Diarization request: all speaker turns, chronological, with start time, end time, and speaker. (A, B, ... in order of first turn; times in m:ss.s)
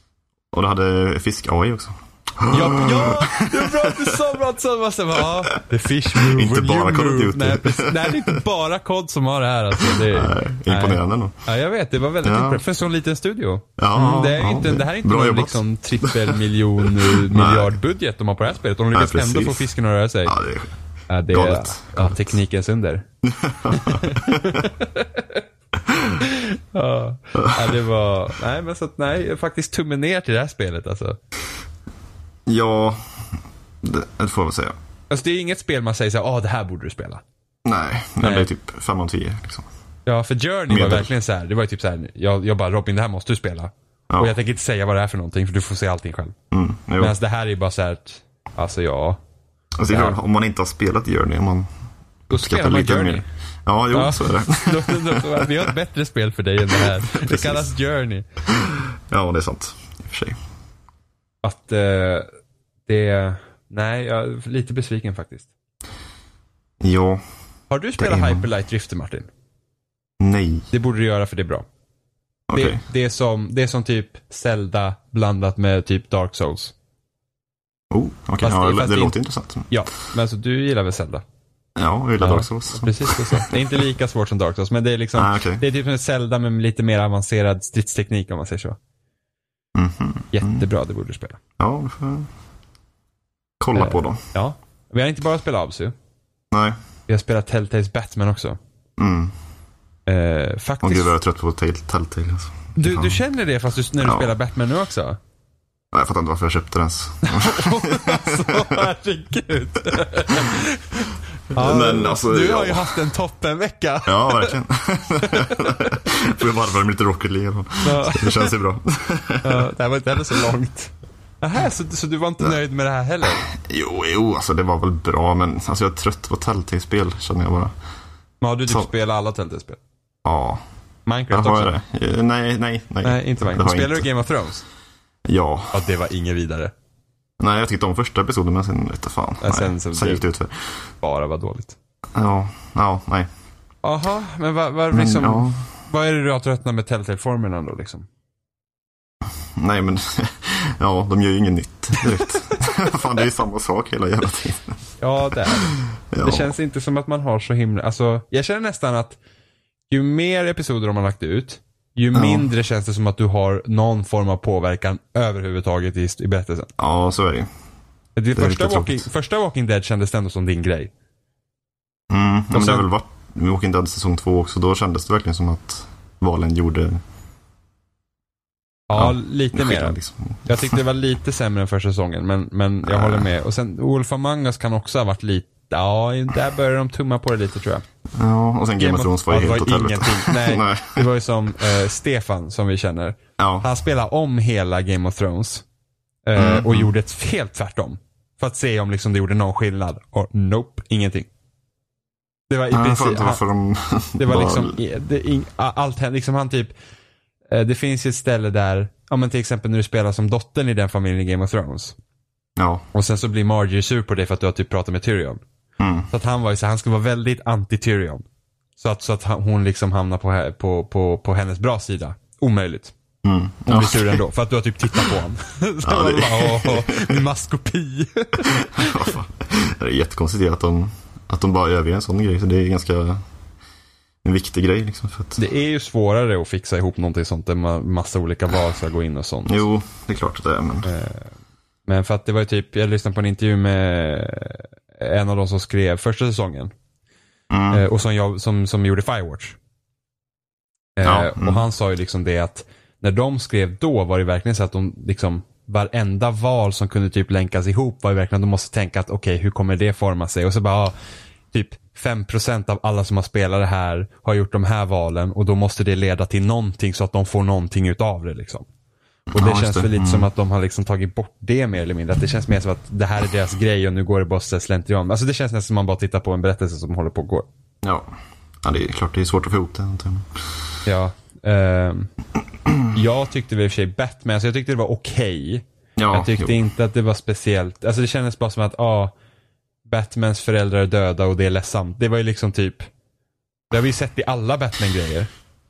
0:00.5-0:04.2 A
0:02.5-0:20.4 B
0:06.1-0:08.4 A
0:09.8-0:11.4 A
0:12.2-0:12.6 A
0:13.8-0:17.8 A
0:18.9-0:19.7 A
0:20.3-0:20.7 A
0:21.1-0:23.0 B
0:21.3-0:22.4 A
0:23.2-0:24.7 A
0:23.7-0:25.4 B
0:25.8-0:26.2 A
0:26.2-0:31.2 B
0:27.4-0:27.8 A
0:32.5-0:33.0 A
0:33.8-0:34.8 A
0:35.1-0:37.2 B
0:37.7-0:39.7 A
0:38.2-0:38.5 B
0:40.1-0:46.4 B
0:40.7-0:41.1 A
0:44.1-0:44.4 A
0:46.5-0:47.2 A
0:47.0-0:49.2 B
0:49.8-0:51.7 A
0:49.9-0:50.2 B
0:52.3-0:55.6 A
0:52.3-0:53.2 B
0:53.9-0:58.2 B
0:56.6-0:57.7 A
0:58.6-1:00.4 A
1:01.4-1:02.3 B
1:02.9-1:05.5 B
1:06.8-1:07.2 A
1:07.7-1:09.3 B
1:08.0-1:08.5 A
1:10.2-1:10.7 A
1:10.7-1:11.6 B
1:12.5-1:12.8 A
1:12.5-1:16.7 B
1:17.9-1:19.7 A
1:18.4-1:19.2 B
1:19.7-1:21.2 B
1:21.8-1:23.5 A
1:22.2-1:28.8 B
1:25.1-1:25.6 A
1:29.8-1:30.7 A
1:30.3-1:31.4 B
1:31.6-1:32.3 A
1:33.6-1:34.2 A
1:33.8-1:36.0 B
1:36.5-1:36.8 A
1:37.1-1:38.6 B
1:39.0-1:39.3 A
1:40.1-1:41.1 B
1:40.8-1:43.2 A
1:42.8-1:45.2 B
1:44.0-1:44.3 A
1:45.9-1:48.8 A
1:47.2-1:54.6 B
1:51.5-1:53.0 A
1:54.1-1:59.7 A
1:55.3-1:55.8 B
1:57.8-1:58.5 B
1:59.4-2:03.5 B
2:03.4-2:07.7 A
2:08.4-2:09.8 B
2:10.2-2:10.6 A
2:11.1-2:11.8 B
2:11.3-2:14.1 A
2:13.0-2:14.6 B
2:15.3-2:15.8 A
2:15.7-2:16.7 B
2:17.4-2:20.8 A
2:19.4-2:20.2 B
2:21.0-2:21.8 B
2:22.1-2:23.3 A
2:23.8-2:28.1 B
2:24.9-2:25.6 A
2:29.6-2:34.8 A
2:35.0-2:39.2 B
2:35.5-2:36.5 A
2:39.9-2:46.7 B
2:42.1-2:42.5 A
2:46.8-2:47.5 A
2:48.2-2:50.9 B
2:48.4-2:49.1 A
2:52.1-2:57.0 A
2:52.5-2:52.9 B
2:58.9-3:07.8 B
2:58.9-3:00.8 A
3:02.9-3:03.3 A
3:08.1-3:11.1 A
3:08.8-3:15.6 B
3:13.4-3:13.7 A
3:16.3-3:21.3 B
3:16.4-3:16.9 A
3:22.5-3:23.4 B
3:22.7-3:24.8 A
3:24.2-3:26.7 B
3:27.5-3:32.0 B
3:32.6-3:32.9 A
3:32.9-3:35.4 B
3:35.8-3:36.1 A
3:36.1-3:38.2 B
3:38.8-3:42.9 B
3:43.2-3:44.2 A
3:43.7-3:49.1 B
3:45.8-3:47.2 A
3:48.4-3:53.2 A
3:54.2-3:55.4 A
3:55.4-3:59.7 B
3:59.5-4:00.9 A
4:00.8-4:01.3 B
4:01.9-4:06.7 B
4:07.5-4:07.8 A
4:07.7-4:09.6 B
4:11.0-4:21.0 B
4:11.0-4:11.6 A
4:21.5-4:28.7 B
4:29.3-4:30.3 A
4:29.3-4:37.5 B
4:38.6-4:40.4 A
4:40.9-4:42.1 B
4:42.9-4:49.1 B
4:46.0-4:46.6 A
4:49.9-4:52.9 B
4:53.7-4:55.3 B